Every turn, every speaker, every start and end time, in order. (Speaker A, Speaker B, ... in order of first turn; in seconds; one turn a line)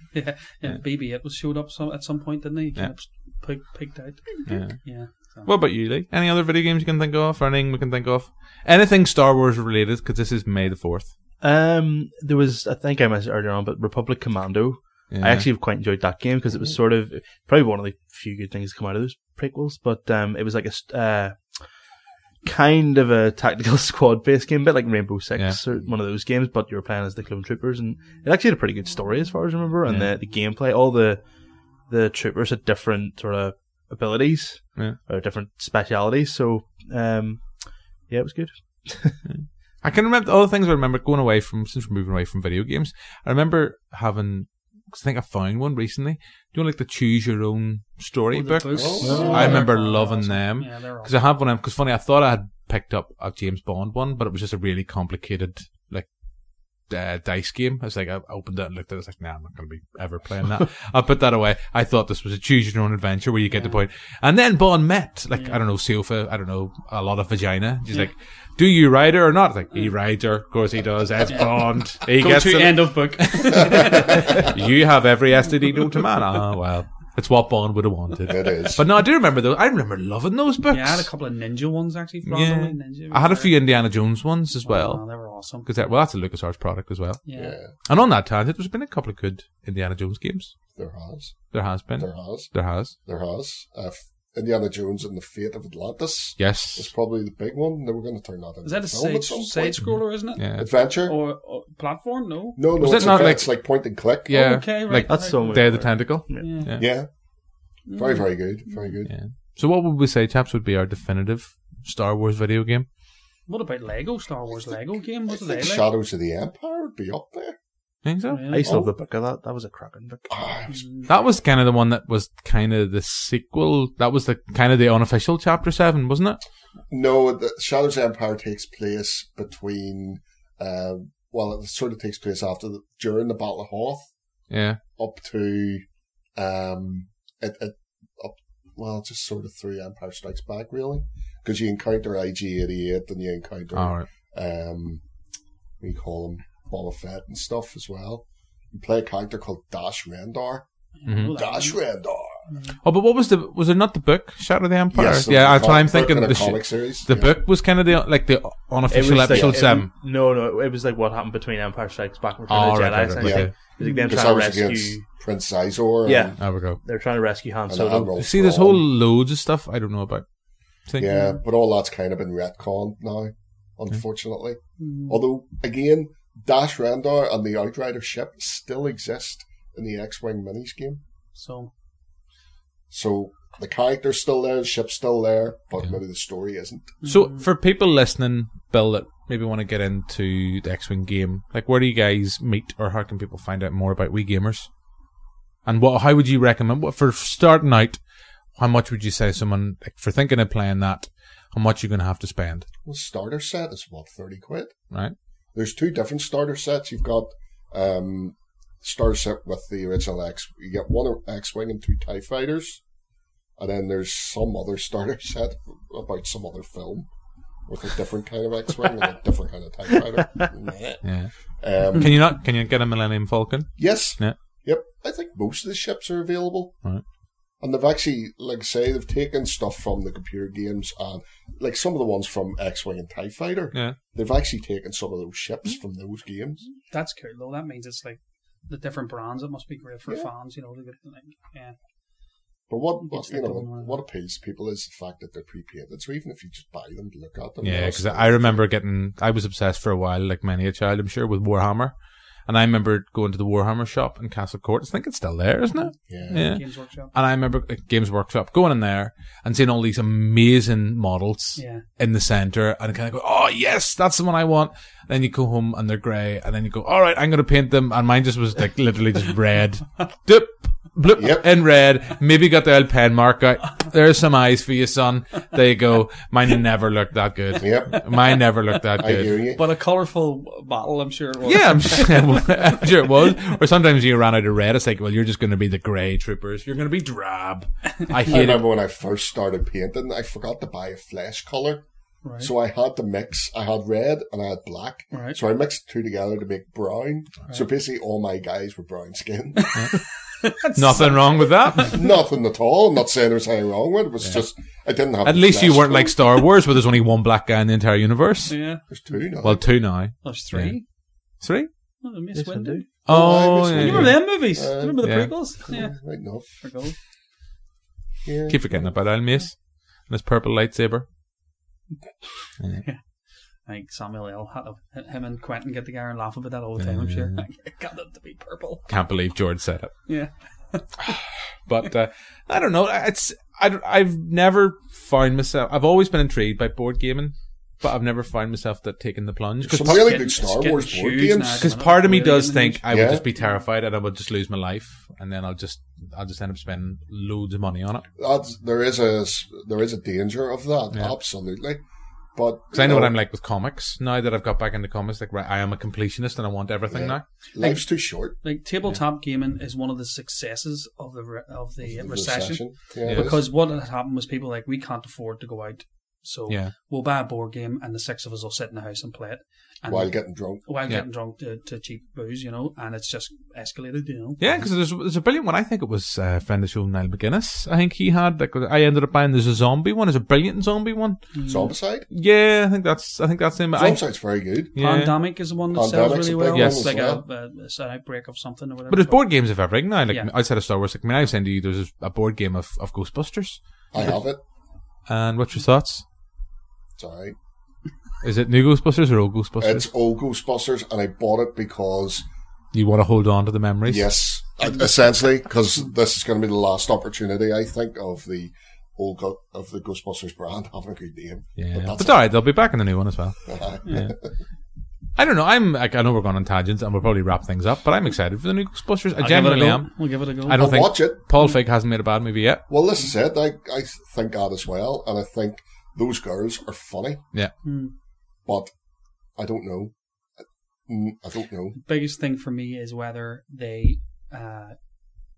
Speaker A: 0.1-5.5
Speaker B: 4.5-11.1
Speaker C: 11.4-39.2
Speaker B: 15.1-15.5
Speaker B: 29.9-30.1
Speaker B: 39.2-81.1
Speaker A: 48.3-51.1
Speaker D: 48.7-49.6
Speaker A: 63.5-63.8
Speaker A: 65.3-65.6
Speaker A: 71.3-74.5
Speaker D: 78.3-78.8
Speaker A: 80.7-83.5
Speaker B: 82.3-87.2
Speaker A: 84.6-85.7
Speaker A: 87.2-87.6
Speaker D: 87.4-87.7
Speaker B: 87.8-90.6
Speaker D: 90.8-100.0
Speaker B: 91.5-92.9
Speaker B: 96.4-96.9
Speaker A: 98.6-103.1
Speaker B: 99.8-100.7
Speaker D: 100.6-101.2
Speaker D: 102.6-104.4
Speaker B: 102.8-106.8
Speaker A: 104.3-106.8
Speaker C: 105.1-106.5
Speaker D: 106.8-107.1
Speaker D: 107.8-109.1
Speaker A: 107.9-109.0
Speaker B: 109.1-112.9
Speaker A: 113.5-115.9
Speaker D: 115.3-117.6
Speaker B: 118.0-118.5
Speaker A: 118.3-118.7
Speaker C: 118.5-120.4
Speaker D: 118.6-118.9
Speaker D: 120.3-120.8
Speaker A: 120.7-121.1
Speaker B: 121.1-126.4
Speaker D: 126.9-134.1
Speaker B: 134.5-134.8
Speaker D: 135.0-135.8
Speaker D: 136.4-145.0
Speaker B: 143.8-144.1
Speaker D: 145.8-150.7
Speaker A: 151.0-151.8
Speaker B: 151.1-151.3
Speaker D: 151.3-152.4
Speaker A: 152.5-152.8
Speaker B: 152.8-159.9
Speaker D: 154.9-157.3
Speaker C: 158.9-165.0
Speaker D: 159.3-159.6
Speaker B: 162.5-163.6
Speaker D: 163.2-166.4
Speaker A: 163.8-164.2
Speaker C: 166.1-168.1
Speaker B: 166.4-166.8
Speaker D: 167.7-168.9
Speaker B: 168.2-170.2
Speaker D: 171.0-181.0
Speaker A: 171.0-171.4
Speaker A: 174.8-175.2
Speaker A: 181.3-181.7
Speaker D: 182.9-186.9
Speaker A: 187.0-187.5
Speaker B: 187.1-194.7
Speaker B: 195.7-198.0
Speaker B: 198.6-202.7
Speaker D: 202.8-204.8
Speaker D: 205.5-212.8
Speaker D: 213.6-217.1
Speaker D: 217.7-221.0
Speaker B: 221.0-221.3
Speaker D: 221.6-222.2
Speaker B: 221.9-224.4
Speaker D: 223.8-226.8
Speaker D: 227.6-236.7
Speaker A: 236.9-241.8
Speaker D: 242.7-248.7
Speaker A: 243.0-244.0
Speaker B: 247.6-279.4
Speaker A: 255.8-257.1
Speaker D: 256.1-256.4
Speaker A: 261.6-261.8
Speaker D: 271.2-271.5
Speaker D: 277.6-278.0
Speaker D: 279.0-279.6
Speaker A: 279.6-283.0
Speaker B: 281.5-288.6
Speaker D: 288.3-291.8
Speaker A: 292.2-292.5
Speaker D: 292.4-299.8
Speaker A: 295.1-295.4
Speaker A: 299.6-302.0
Speaker B: 300.8-302.0
Speaker D: 301.9-306.2
Speaker B: 305.2-308.6
Speaker A: 308.5-308.8
Speaker D: 308.9-309.6
Speaker B: 309.4-310.8
Speaker A: 310.2-310.8
Speaker B: 311.4-311.7
Speaker A: 312.0-316.9
Speaker C: 312.3-312.9
Speaker B: 313.1-314.4
Speaker D: 313.1-315.0
Speaker B: 315.0-315.3
Speaker D: 315.6-316.5
Speaker D: 318.2-318.9
Speaker B: 318.5-321.1
Speaker A: 323.6-328.9
Speaker B: 326.8-327.4
Speaker B: 328.9-330.0
Speaker A: 330.1-330.9
Speaker B: 331.7-340.2
Speaker D: 339.6-341.7
Speaker A: 339.8-342.8
Speaker B: 341.6-348.1
Speaker D: 342.9-343.3
Speaker D: 348.2-351.8
Speaker D: 352.4-353.1
Speaker B: 352.7-357.2
Speaker D: 356.9-358.4
Speaker A: 357.6-374.5
Speaker D: 361.8-363.5
Speaker B: 363.1-363.4
Speaker D: 369.9-370.6
Speaker B: 374.4-381.2
Speaker A: 381.3-381.7
Speaker D: 381.5-382.1
Speaker B: 382.1-384.1
Speaker D: 383.8-384.7
Speaker B: 384.7-385.1
Speaker A: 384.8-389.3
Speaker D: 385.7-387.2
Speaker B: 386.5-386.9
Speaker B: 388.9-394.1
Speaker A: 390.1-390.3
Speaker D: 393.9-394.4
Speaker B: 395.1-396.1
Speaker D: 397.0-397.4
Speaker B: 398.2-399.9
Speaker D: 399.6-402.3
Speaker B: 402.7-404.1
Speaker D: 403.9-412.2
Speaker B: 411.6-414.1
Speaker D: 413.5-414.3
Speaker B: 415.2-422.6
Speaker A: 419.2-420.7
Speaker D: 420.5-421.2
Speaker D: 422.7-427.2
Speaker A: 427.6-427.9
Speaker D: 428.4-428.7
Speaker D: 429.4-429.9
Speaker D: 430.9-431.8
Speaker A: 431.7-434.8